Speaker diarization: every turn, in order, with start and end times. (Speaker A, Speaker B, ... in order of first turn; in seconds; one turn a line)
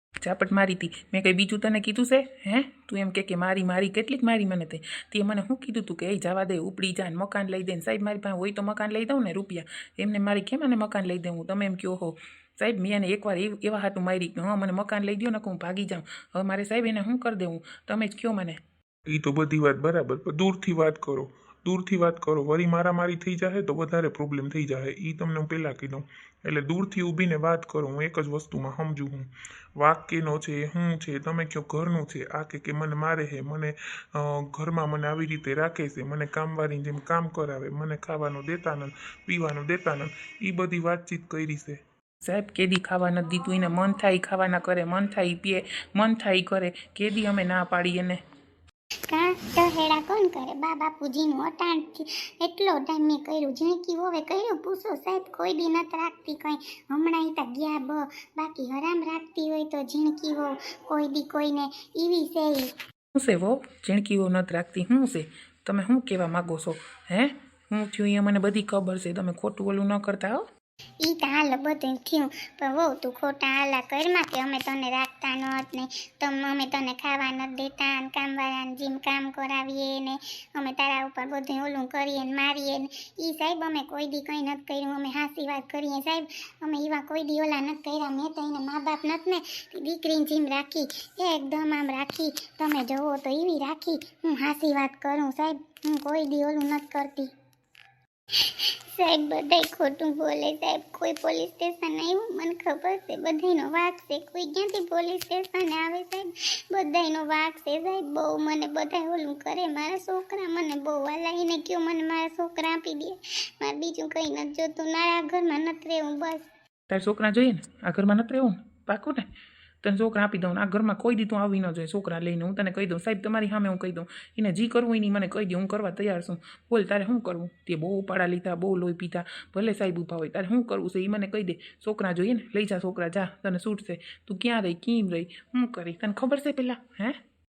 Speaker A: 0.2-18.6
Speaker B: 19.1-41.8
Speaker A: 42.2-48.2
Speaker C: 49.1-62.7
Speaker A: 63.1-70.4
Speaker C: 71.0-97.3
Speaker C: 98.9-116.5
Speaker A: 116.9-119.3
Speaker A: 119.8-137.2